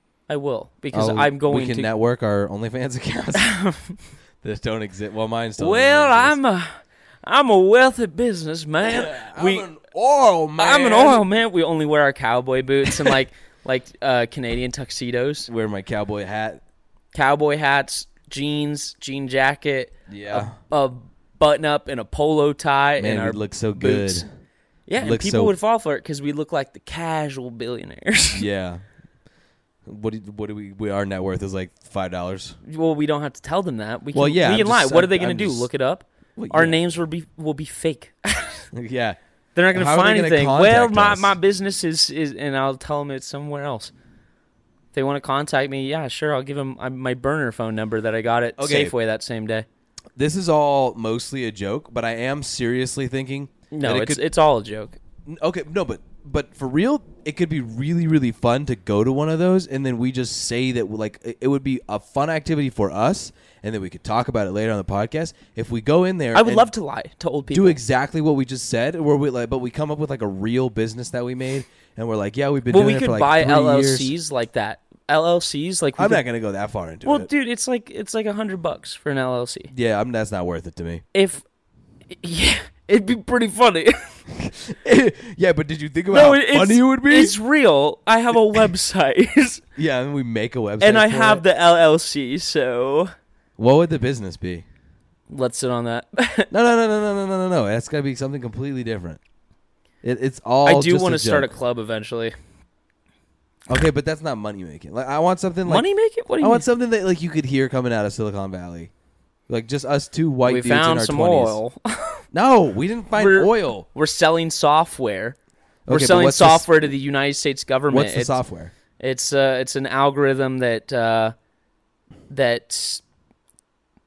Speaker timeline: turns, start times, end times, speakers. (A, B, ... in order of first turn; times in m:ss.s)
0:00.3-0:01.9 A
0:00.9-0:03.6 B
0:03.4-0:03.9 A
0:04.4-0:06.4 B
0:05.6-0:09.7 A
0:08.8-0:11.3 B
0:10.6-0:15.5 A
0:12.9-0:13.2 B
0:15.5-0:16.6 B
0:17.1-0:24.3 A
0:20.1-0:20.5 B
0:23.0-0:24.3 B
0:24.9-0:28.5 A
0:25.0-0:25.5 B
0:28.3-0:28.8 B
0:29.9-0:32.6 B
0:32.6-0:38.7 A
0:34.1-0:35.7 B
0:36.4-0:36.8 B
0:38.7-0:39.2 B
0:39.6-0:43.9 A
0:39.7-0:41.4 B
0:44.9-0:49.7 A
0:48.6-0:49.0 B
0:50.2-0:54.2 B
0:53.7-0:55.0 A
0:55.3-1:06.7 B
1:06.3-1:07.8 A
1:07.5-1:14.1 B
1:12.7-1:16.2 A
1:16.0-1:17.3 B
1:17.0-1:19.7 A
1:19.7-1:21.0 B
1:21.1-1:21.4 A
1:22.1-1:24.2 A
1:24.3-1:27.4 B
1:26.1-1:29.6 A
1:29.8-1:31.4 B
1:30.8-1:33.1 A
1:33.6-1:34.6 B
1:35.3-1:36.5 A
1:36.5-1:39.2 B
1:40.0-1:41.5 B
1:40.6-1:42.4 A
1:43.7-1:45.9 B
1:45.7-1:46.7 A
1:46.4-1:48.9 B
1:49.5-1:51.6 B
1:50.5-1:52.2 A
1:52.3-1:53.9 B
1:53.2-1:55.4 A
1:55.9-1:56.9 B
1:55.9-1:58.4 A
1:57.9-1:58.7 B
1:59.0-2:01.3 A
2:02.3-2:03.0 A